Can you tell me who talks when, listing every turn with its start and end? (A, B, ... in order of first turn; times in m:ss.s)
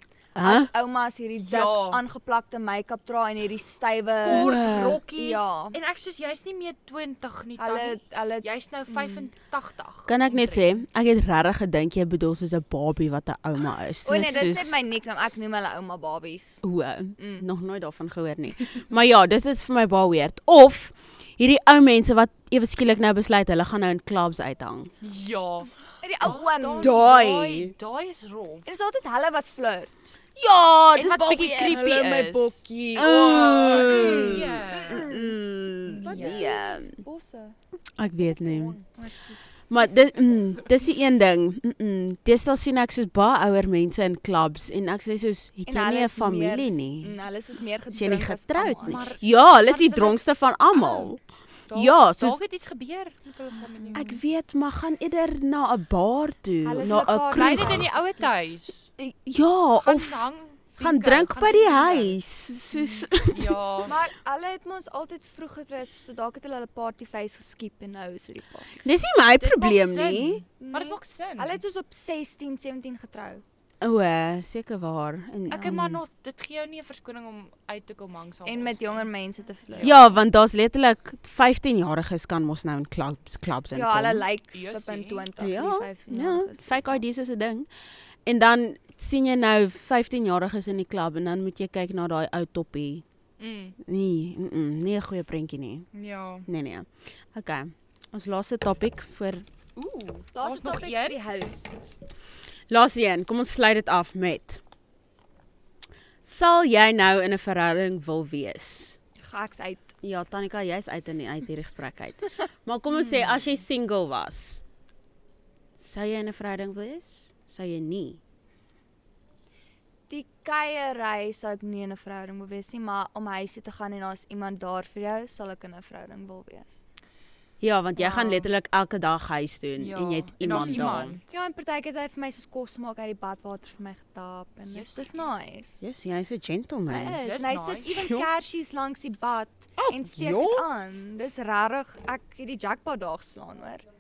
0:00.4-0:00.7 A
0:00.4-0:05.8 B
0:01.4-0:02.0 C
0:04.2-0:10.8 C
0:04.2-0:05.0 A
0:07.6-0:09.3 B
0:10.1-0:14.8 A
0:14.0-0:16.6 B
0:16.6-0:24.9 A
0:17.2-0:17.5 B
0:25.0-0:28.7 C
0:26.0-0:27.0 B
0:26.8-0:27.7 A
0:28.7-0:30.0 B
0:30.4-0:37.0 A
0:31.0-0:35.1 C
0:32.6-0:37.6 B
0:35.9-0:36.5 C
0:38.0-0:38.8 A
0:38.3-0:39.5 B
0:39.7-0:47.1 A
0:45.7-0:49.0 B
0:47.9-0:51.2 A
0:48.8-0:51.1 C
0:51.7-0:54.2 C
0:51.7-0:52.4 A
0:53.5-0:54.1 B
0:54.0-0:57.9 A
0:56.6-0:58.3 B
0:57.3-0:58.9 C
0:59.0-1:00.3 A
0:59.7-1:02.2 C
1:00.8-1:03.6 A
1:02.8-1:03.9 C
1:03.8-1:08.7 B
1:08.8-1:10.4 A
1:09.4-1:11.6 C
1:10.6-1:13.4 B
1:13.8-1:16.0 A
1:15.5-1:19.0 C
1:18.5-1:20.0 B
1:19.7-1:20.1 C
1:19.8-1:24.2 A
1:23.7-1:27.0 B
1:24.5-1:25.3 C
1:25.4-1:27.7 A
1:28.2-1:33.0 A
1:33.4-1:33.8 C
1:33.8-1:35.9 A
1:35.9-1:36.5 C
1:36.5-1:39.4 A
1:39.8-1:42.0 B
1:40.4-1:41.2 C
1:42.7-1:44.6 A
1:46.2-1:49.0 A
1:49.2-1:49.9 B
1:50.0-1:54.6 A
1:55.8-1:58.2 A
2:00.1-2:06.8 B
2:07.6-2:11.2 A
2:08.0-2:08.4 C
2:09.8-2:11.2 C
2:11.3-2:15.8 B
2:14.7-2:15.2 C
2:15.8-2:17.2 A
2:16.9-2:23.8 B
2:17.2-2:18.0 C
2:19.8-2:20.6 A